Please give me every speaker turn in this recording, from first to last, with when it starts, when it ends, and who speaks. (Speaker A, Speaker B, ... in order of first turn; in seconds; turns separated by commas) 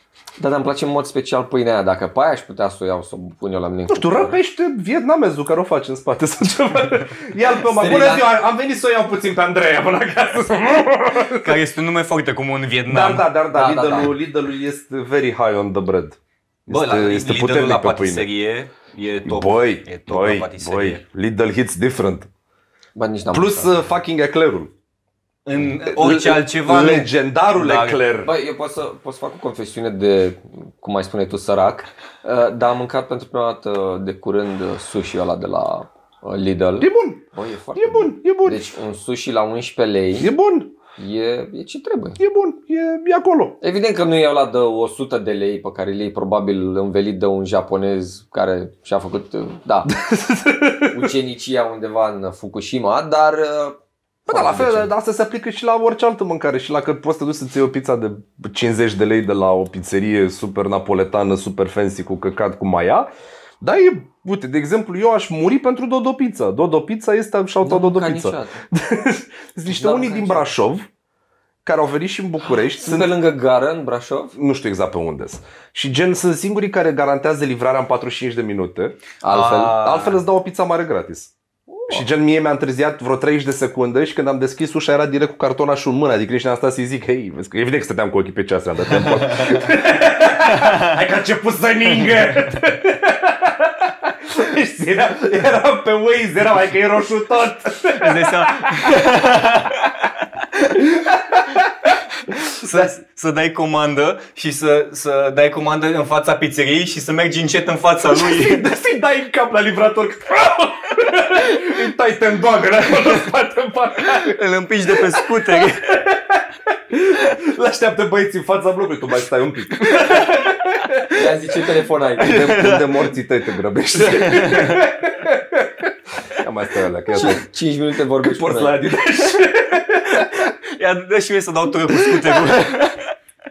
Speaker A: 0.4-4.4, Speaker B: 3.9-11.6, Speaker A: 7.7-8.3, Speaker C: 11.3-13.3, Speaker B: 12.9-18.3, Speaker A: 13.5-14.2, Speaker C: 16.7-21.0, Speaker B: 19.2-22.3, Speaker A: 23.0-23.8, Speaker B: 23.3-24.7, Speaker C: 25.5-28.0, Speaker B: 25.9-28.3, Speaker A: 28.2-40.3, Speaker B: 36.8-37.2, Speaker B: 37.8-38.7, Speaker B: 40.2-40.7, Speaker A: 41.0-42.2, Speaker B: 42.2-43.6, Speaker A: 43.6-49.9, Speaker B: 49.9-51.1, Speaker A: 50.9-53.8, Speaker B: 54.3-63.1, Speaker A: 54.3-54.9, Speaker B: 63.6-70.9, Speaker A: 67.6-68.6, Speaker A: 69.7-70.5, Speaker B: 71.6-73.1, Speaker A: 72.8-74.4, Speaker B: 74.4-79.0, Speaker A: 79.2-79.9, Speaker C: 79.3-80.2, Speaker B: 79.7-81.3, Speaker A: 81.7-82.0, Speaker B: 81.9-99.0, Speaker C: 89.3-89.6, Speaker C: 97.9-99.9, Speaker B: 100.6-101.9, Speaker C: 102.5-108.6, Speaker B: 108.1-121.0, Speaker C: 114.1-116.0, Speaker C: 120.0-120.3, Speaker A: 121.1-122.4, Speaker C: 122.2-123.1, Speaker B: 122.2-127.5, Speaker C: 124.0-124.9, Speaker A: 127.1-128.8, Speaker B: 128.2-130.5, Speaker C: 130.7-133.1, Speaker B: 132.0-132.3